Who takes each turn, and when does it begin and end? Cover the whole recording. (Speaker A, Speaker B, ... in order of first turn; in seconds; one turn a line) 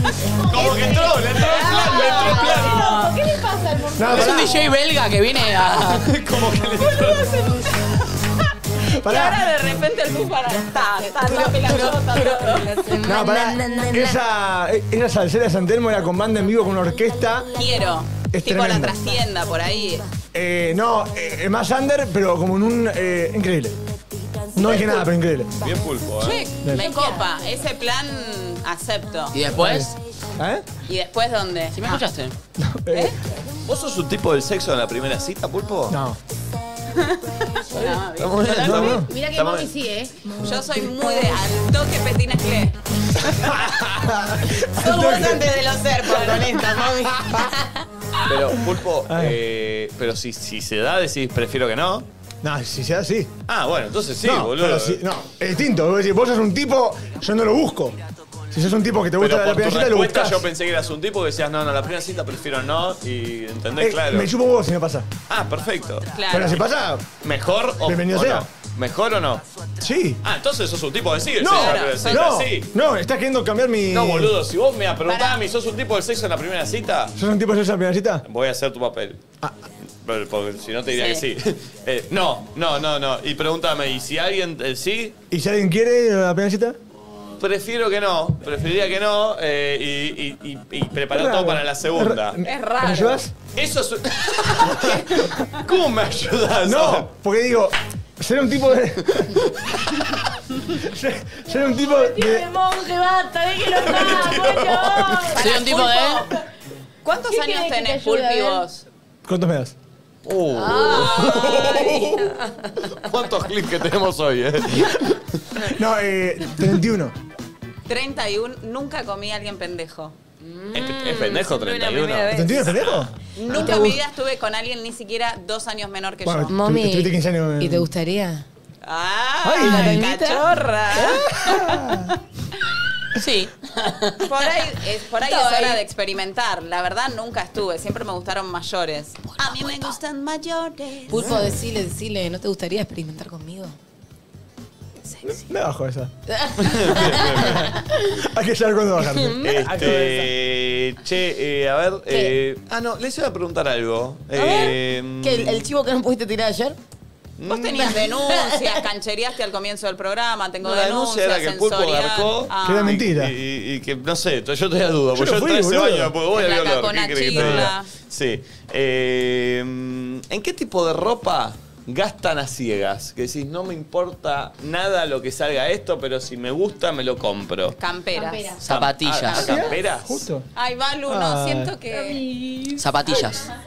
Speaker A: 0.3-4.6
Speaker B: 0.5-3.0
Speaker C: 2.2-3.1
Speaker D: 4.0-4.5
Speaker E: 4.1-6.1
Speaker B: 5.9-7.5
Speaker C: 6.9-7.9
Speaker C: 9.0-13.0
Speaker D: 9.0-9.4
Speaker F: 11.0-14.2
Speaker D: 13.0-17.5
Speaker C: 17.5-20.1
Speaker D: 18.3-18.9
Speaker D: 20.3-23.8
Speaker D: 24.5-25.5
Speaker B: 24.6-25.1
Speaker B: 25.6-26.5
Speaker E: 26.2-26.5
Speaker C: 26.7-29.3
Speaker A: 26.7-27.2
Speaker E: 29.3-29.9
Speaker D: 29.5-30.6
Speaker C: 30.9-32.0
Speaker E: 31.7-32.3
Speaker D: 32.6-33.1
Speaker C: 32.9-33.1
Speaker B: 33.6-36.0
Speaker D: 35.9-36.2
Speaker C: 36.9-38.9
Speaker B: 38.1-39.7
Speaker D: 38.6-39.1
Speaker A: 38.8-40.3
Speaker C: 40.4-43.5
Speaker D: 43.3-47.5
Speaker F: 44.8-47.8
Speaker B: 48.2-52.0
Speaker D: 49.0-49.4
Speaker D: 52.4-53.4
Speaker B: 53.5-55.0
Speaker D: 54.2-58.0
Speaker D: 58.5-60.5
Speaker B: 59.2-64.3
Speaker D: 63.8-65.1
Speaker B: 65.3-66.2
Speaker C: 66.1-66.6
Speaker D: 66.3-67.1
Speaker B: 67.2-69.4
Speaker D: 67.8-68.5
Speaker D: 69.8-70.2
Speaker B: 70.2-72.7
Speaker D: 71.4-74.3
Speaker C: 71.4-72.3
Speaker B: 73.9-77.1
Speaker C: 75.0-75.4
Speaker D: 77.2-78.2
Speaker B: 78.2-79.2
Speaker B: 80.0-85.2
Speaker C: 80.9-81.2
Speaker D: 85.3-86.8
Speaker B: 87.4-92.4
Speaker D: 91.1-93.3
Speaker C: 92.4-93.2
Speaker B: 93.5-97.1
Speaker D: 96.6-99.4
Speaker D: 100.8-102.5
Speaker A: 101.7-105.4
Speaker B: 103.7-105.4
Speaker E: 105.3-106.3
Speaker C: 105.3-106.3
Speaker C: 107.0-108.8
Speaker A: 107.0-108.6
Speaker D: 109.2-109.7
Speaker B: 110.2-112.4
Speaker F: 110.5-113.1
Speaker C: 111.3-111.7
Speaker B: 112.9-115.7
Speaker D: 115.7-117.1
Speaker C: 117.9-120.1
Speaker F: 120.4-122.7
Speaker B: 120.7-123.1
Speaker D: 122.3-123.1
Speaker C: 123.4-126.5
Speaker F: 123.5-124.0
Speaker D: 126.2-127.9
Speaker F: 126.5-128.4
Speaker C: 128.8-132.1
Speaker D: 129.4-130.0
Speaker F: 129.6-130.5
Speaker D: 130.9-132.1
Speaker E: 133.2-134.2
Speaker C: 134.2-141.5
Speaker F: 135.3-135.8
Speaker F: 141.1-143.8
Speaker D: 141.2-141.5
Speaker F: 145.1-145.4
Speaker D: 145.3-146.1
Speaker F: 146.3-147.8
Speaker B: 146.6-147.7
Speaker D: 147.6-150.3
Speaker F: 149.1-149.7
Speaker B: 149.3-155.7
Speaker F: 154.3-156.8
Speaker B: 157.4-158.0
Speaker C: 157.5-163.0
Speaker F: 158.0-158.8
Speaker B: 160.6-177.8
Speaker D: 162.6-163.4
Speaker D: 165.1-166.2
Speaker C: 166.3-167.9
Speaker D: 167.3-167.7
Speaker C: 177.8-178.6
Speaker F: 178.2-178.6
Speaker A: 178.3-178.5
Speaker B: 178.6-180.3
Speaker E: 178.6-179.5
Speaker C: 179.3-179.7
Speaker D: 179.3-180.5
Speaker C: 180.5-182.2
Speaker D: 181.1-181.8
Speaker A: 182.0-182.7
Speaker E: 182.8-183.5